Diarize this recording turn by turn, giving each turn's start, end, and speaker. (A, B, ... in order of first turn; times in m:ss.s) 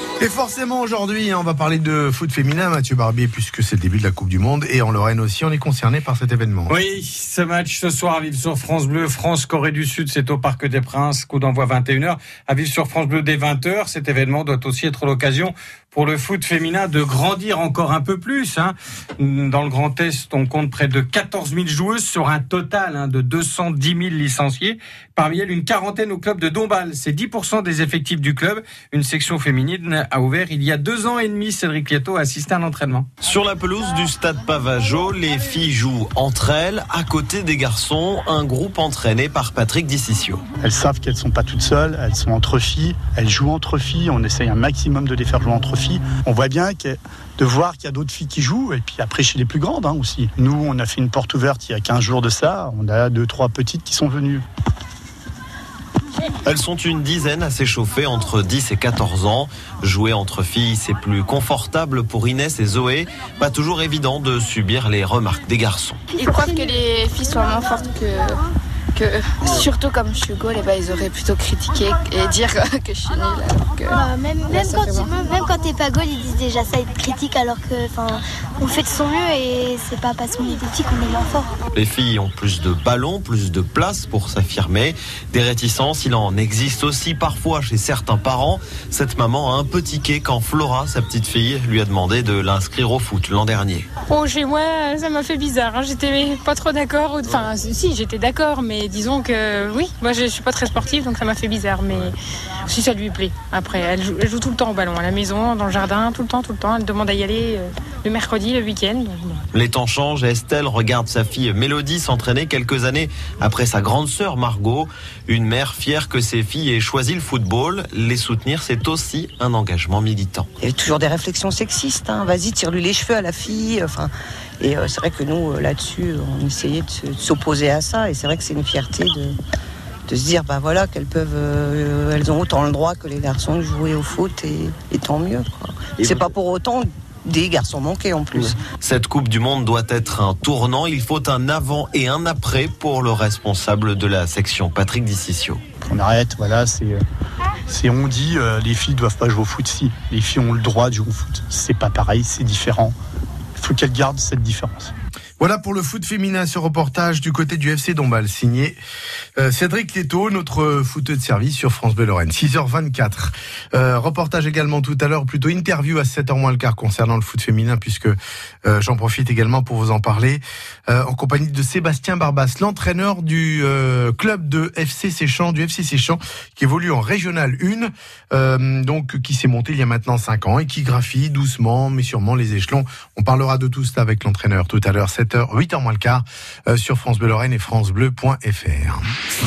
0:00.2-0:06.7 A
0:06.7-0:33.1 B
0:33.2-0:40.4 C
0:40.6-0:54.4 D
0:56.4-1:06.0 C
1:06.1-1:08.4 E
1:06.2-1:06.5 F
1:08.9-1:15.1 E
1:13.9-1:21.5 F
1:21.7-1:33.8 C
1:34.1-1:49.4 G
1:49.5-2:00.5 C
2:00.6-2:09.4 H
2:10.1-2:18.6 H
2:18.3-2:25.6 C
2:25.8-2:27.0 D
2:27.7-2:32.9 D
2:33.6-2:34.9 D
2:35.4-2:38.8 A
2:39.4-3:09.0 A